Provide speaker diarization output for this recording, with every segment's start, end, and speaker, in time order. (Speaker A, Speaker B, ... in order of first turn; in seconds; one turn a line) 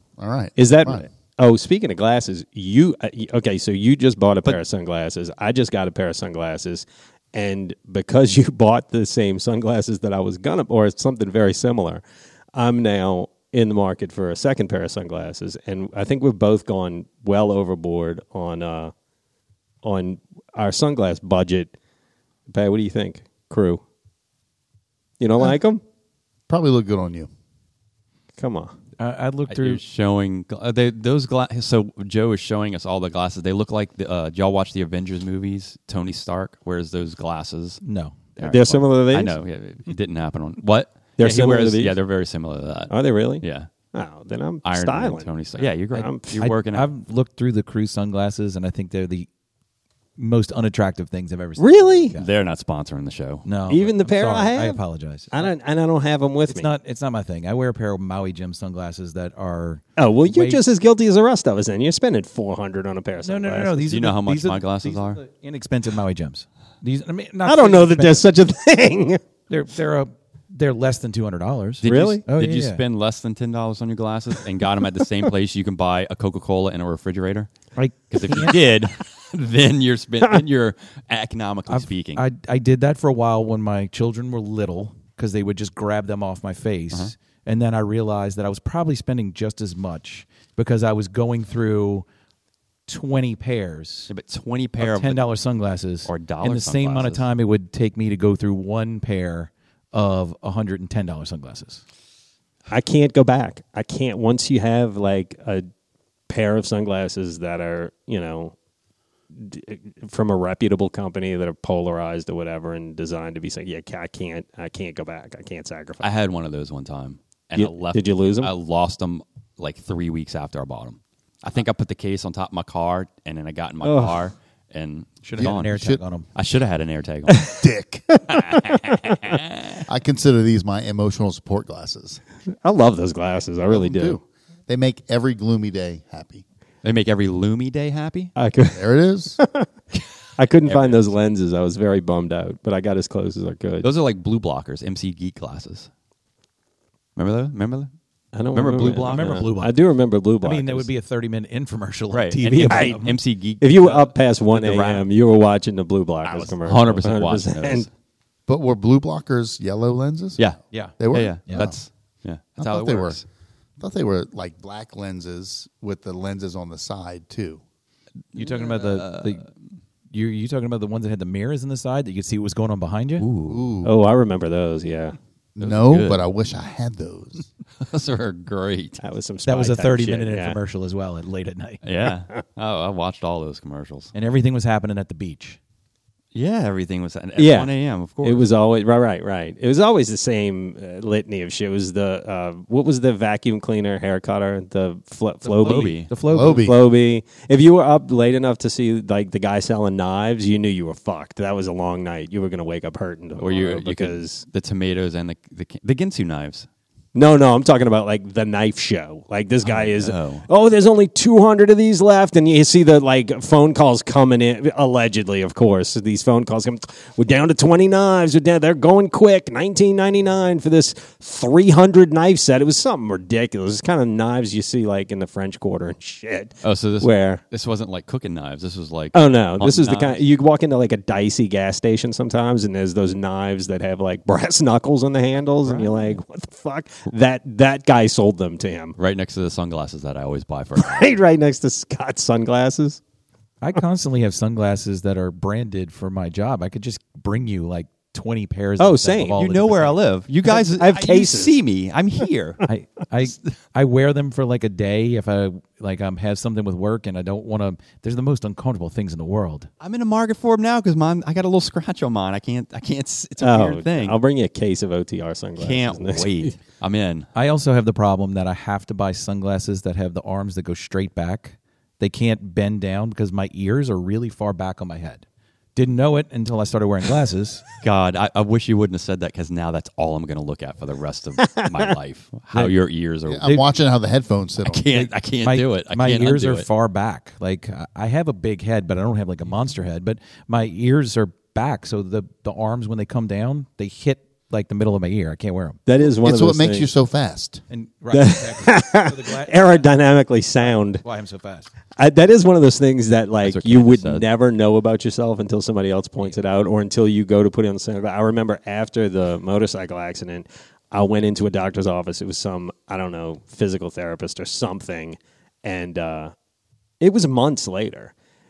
Speaker A: 0.2-1.1
Speaker B: 0.6-12.0
Speaker B: 12.5-18.9
Speaker B: 19.8-21.7
Speaker B: 22.5-23.8
Speaker B: 25.2-25.8
Speaker A: 26.5-27.3
Speaker B: 28.4-28.7
Speaker C: 29.0-29.8
Speaker D: 29.5-37.8
Speaker C: 37.8-38.2
Speaker D: 38.4-43.7
Speaker B: 38.4-39.3
Speaker B: 41.2-42.0
Speaker B: 42.9-46.4
Speaker D: 44.6-46.9
Speaker C: 46.4-49.3
Speaker C: 50.2-52.3
Speaker B: 51.6-52.1
Speaker D: 52.1-53.5
Speaker C: 53.4-55.5
Speaker B: 53.7-54.8
Speaker B: 55.3-56.7
Speaker C: 56.5-60.6
Speaker B: 60.0-63.8
Speaker C: 63.2-68.3
Speaker D: 63.8-65.2
Speaker B: 67.4-69.2
Speaker C: 69.5-72.8
Speaker D: 71.8-77.5
Speaker B: 71.8-72.2
Speaker C: 77.8-78.6
Speaker D: 78.1-82.2
Speaker C: 81.7-92.0
Speaker C: 92.9-94.1
Speaker D: 94.1-95.2
Speaker C: 94.8-101.8
Speaker D: 96.0-97.2
Speaker B: 102.7-105.7
Speaker B: 106.3-108.5
Speaker B: 109.3-116.1
Speaker D: 116.0-125.8
Speaker B: 117.5-118.5
Speaker B: 123.8-124.2
Speaker C: 125.2-126.3
Speaker A: 125.4-126.0
Speaker D: 126.3-127.5
Speaker B: 127.3-127.6
Speaker A: 127.5-128.2
Speaker B: 128.1-128.9
Speaker D: 128.3-129.8
Speaker A: 129.9-132.2
Speaker B: 132.6-134.2
Speaker A: 133.7-136.4
Speaker D: 136.8-138.3
Speaker B: 138.3-138.8
Speaker A: 138.7-139.4
Speaker B: 139.4-139.7
Speaker B: 140.4-143.9
Speaker D: 140.6-141.0
Speaker D: 143.8-145.9
Speaker D: 147.2-147.9
Speaker B: 148.3-150.9
Speaker D: 148.5-149.5
Speaker C: 148.8-149.7
Speaker C: 150.4-153.2
Speaker D: 152.1-155.1
Speaker B: 152.6-153.0
Speaker B: 153.6-157.9
Speaker D: 156.2-157.9
Speaker A: 158.5-160.4
Speaker A: 161.0-161.8
Speaker D: 161.1-163.2
Speaker C: 161.4-161.7
Speaker A: 162.6-163.2
Speaker A: 163.8-167.6
Speaker D: 168.3-169.4
Speaker C: 168.3-169.5
Speaker C: 170.1-173.3
Speaker D: 173.2-173.7
Speaker A: 173.5-173.9
Speaker B: 173.8-175.2
Speaker A: 175.6-177.5
Speaker D: 175.6-176.2
Speaker D: 177.8-179.0
Speaker B: 179.0-180.6
Speaker C: 179.4-181.8
Speaker D: 181.8-184.1
Speaker C: 184.1-185.6
Speaker D: 186.3-188.4
Speaker B: 187.3-187.7
Speaker B: 188.2-204.4
Speaker C: 195.4-196.7
Speaker D: 195.6-196.1
Speaker A: 196.2-196.8
Speaker D: 203.4-206.7
Speaker B: 207.1-227.4
Speaker D: 209.6-210.4
Speaker D: 226.6-230.2
Speaker B: 229.1-238.9
Speaker D: 235.6-236.2
Speaker D: 239.0-241.1
Speaker B: 240.8-243.0
Speaker C: 243.6-250.0
Speaker B: 248.8-249.4
Speaker D: 249.3-252.6
Speaker B: 250.4-251.5
Speaker C: 252.7-259.7
Speaker D: 259.8-264.2
Speaker B: 263.4-266.5
Speaker D: 265.6-267.3
Speaker C: 267.3-275.2
Speaker C: 275.8-277.6
Speaker D: 277.8-283.6
Speaker B: 281.4-281.9
Speaker A: 283.3-284.8
Speaker D: 284.6-286.6
Speaker C: 285.4-295.8
Speaker B: 295.9-296.9
Speaker A: 296.2-297.6
Speaker C: 297.7-299.9
Speaker B: 298.1-301.0
Speaker C: 300.6-301.7
Speaker B: 302.0-316.3
Speaker D: 303.4-304.2
Speaker B: 317.0-318.1